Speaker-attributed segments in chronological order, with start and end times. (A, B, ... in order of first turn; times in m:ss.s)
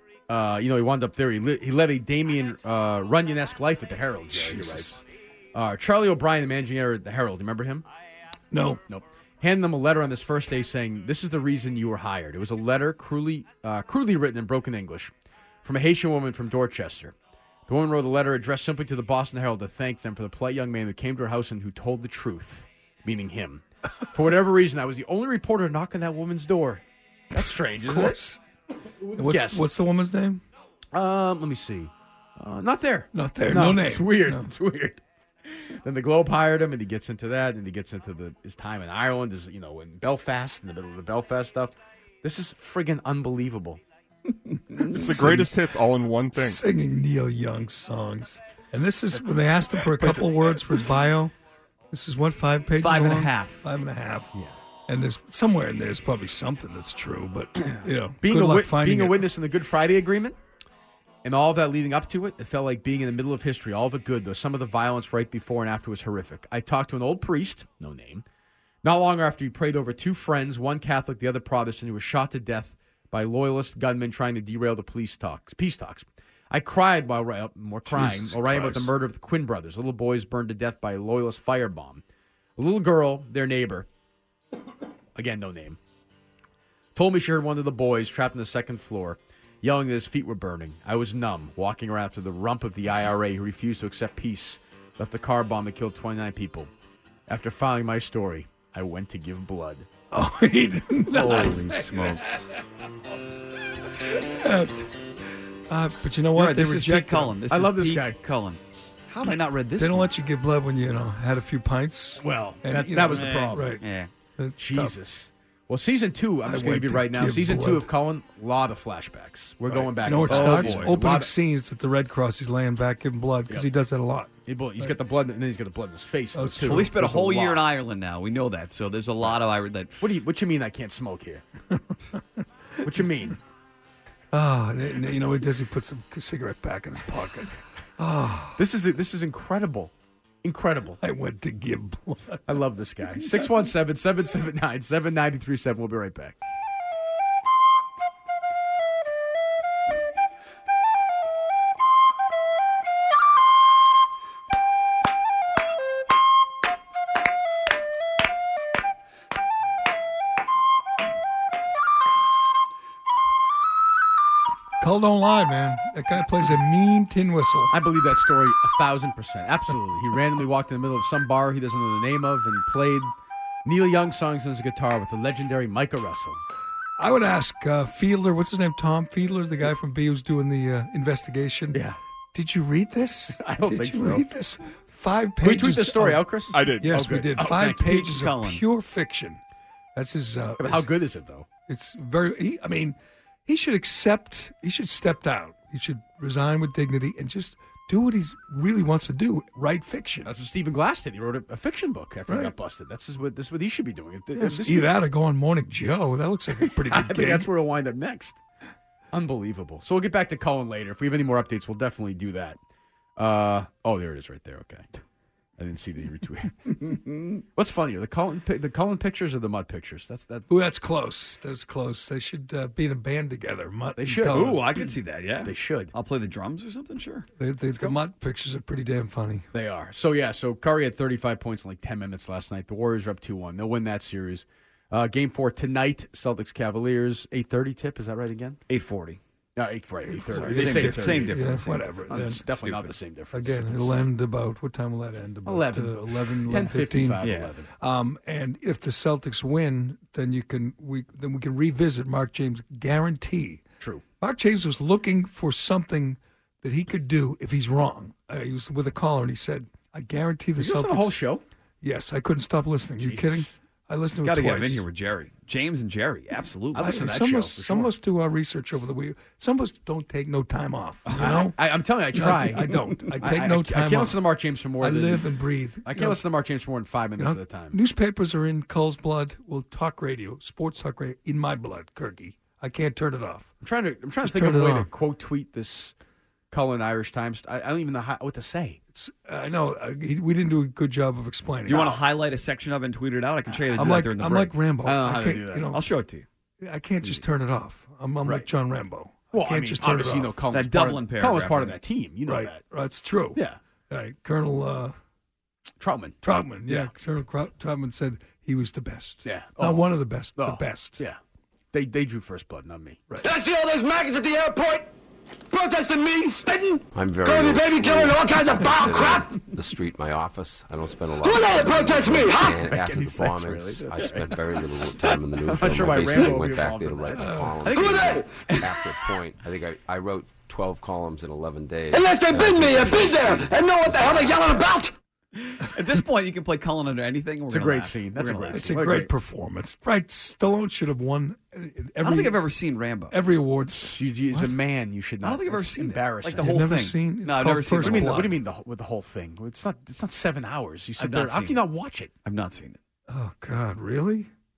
0:00.3-0:04.9 A
0:04.3-0:05.0 B
0:05.5-0:07.8 A
0:08.5-0:08.8 B
0:08.9-0:15.1 A
0:15.6-0:17.1 A
0:17.7-0:28.2 A
0:27.3-0:28.4 B
0:29.0-0:30.4 B
0:29.1-0:29.7 A
0:30.9-0:43.8 A
0:33.1-0:34.5 B
0:44.7-0:45.0 C
0:44.9-0:46.6 D
0:45.0-0:45.5 B
0:46.3-0:51.3 B
0:49.9-0:50.6 A
0:51.9-0:54.3 B
0:52.8-0:53.6 C
0:54.9-0:59.3 B
0:57.7-1:00.4 A
1:01.2-1:08.2 A
1:08.8-1:22.0 A
1:17.9-1:18.3 B
1:22.6-1:23.9 A
1:25.2-1:25.8 A
1:26.9-1:36.7 A
1:37.3-1:39.9 A
1:40.1-1:42.6 B
1:41.1-1:42.4 C
1:43.7-1:44.9 B
1:45.7-1:47.4 B
1:46.3-1:50.1 C
1:47.5-1:48.2 A
1:49.8-1:53.8 B
1:52.2-1:53.7 A
1:53.1-1:54.1 C
1:54.4-1:54.9 B
1:54.6-2:01.3 A
1:56.4-1:57.9 B
1:59.7-2:04.3 B
2:00.2-2:01.0 C
2:04.4-2:07.6 A
2:06.3-2:07.1 B
2:06.6-2:09.9 C
2:10.0-2:11.4 A
2:11.7-2:12.4 B
2:12.8-2:13.4 A
2:14.3-2:18.6 B
2:18.6-2:19.9 A
2:20.4-2:21.0 A
2:21.0-2:22.4 B
2:22.5-2:26.4 A
2:44.8-2:47.7 B
2:47.7-2:53.1 A
2:53.6-2:56.4 A
2:57.0-3:01.8 B
3:01.7-3:02.0 A
3:02.3-3:09.4 B
3:03.4-3:04.2 A
3:05.4-3:08.0 A
3:06.5-3:06.9 D
3:07.7-3:08.6 C
3:09.9-3:10.9 B
3:10.6-3:11.5 A
3:11.7-3:20.3 B
3:20.2-3:24.9 A
3:22.3-3:22.5 B
3:24.3-3:27.5 B
3:26.6-3:28.4 A
3:29.1-3:32.6 A
3:33.2-3:34.8 A
3:35.6-3:36.8 A
3:36.9-3:37.3 C
3:37.5-3:40.5 A
3:40.5-3:44.6 B
3:44.0-3:44.7 A
3:44.2-3:47.3 C
3:45.4-3:45.9 A
3:47.4-3:49.4 B
3:49.5-3:58.6 A
3:58.7-3:59.2 C
3:59.6-4:01.6 A
4:00.1-4:02.4 B
4:00.3-4:02.9 C
4:02.1-4:04.0 A
4:03.3-4:07.2 B
4:05.4-4:07.7 A
4:07.2-4:07.5 C
4:07.8-4:13.6 B
4:14.2-4:21.1 B
4:20.6-4:21.4 A
4:21.8-4:24.8 B
4:23.0-4:23.6 A
4:24.2-4:27.0 C
4:26.7-4:27.9 A
4:26.8-4:31.6 B
4:31.1-4:35.3 A
4:32.1-4:34.2 B
4:32.7-4:33.1 C
4:34.8-4:36.2 B
4:35.8-4:37.8 A
4:37.2-4:43.5 B
4:43.6-4:45.9 A
4:44.2-4:44.9 B
4:46.5-4:48.8 A
4:48.9-4:52.0 B
4:51.7-4:54.6 C
4:51.7-4:52.0 A
4:53.7-4:55.8 B
4:54.8-4:55.8 A
4:55.7-4:56.2 C
4:56.6-5:00.3 B
4:58.2-4:58.5 A
4:59.3-5:02.6 A
5:00.5-5:01.7 C
5:02.2-5:04.9 B
5:05.8-5:06.9 A
5:06.2-5:11.0 B
5:09.2-5:11.2 A
5:11.7-5:13.0 A
5:13.2-5:14.9 E
5:15.5-5:19.3 E
5:16.9-5:34.8 F
5:21.2-5:22.6 E
5:22.5-5:24.6 A
5:25.4-5:27.5 A
5:27.1-5:27.7 B
5:27.7-5:28.7 C
5:27.7-5:28.2 E
5:31.9-5:34.9 E
5:35.4-5:38.8 C
5:37.5-5:39.1 A
5:38.5-5:42.4 B
5:42.0-5:43.2 C
5:43.1-5:44.5 B
5:43.7-5:46.5 A
5:45.2-5:48.2 C
5:46.4-5:48.4 B
5:47.8-5:52.1 A
5:51.0-5:51.6 C
5:52.2-5:52.8 C
5:53.1-5:54.3 B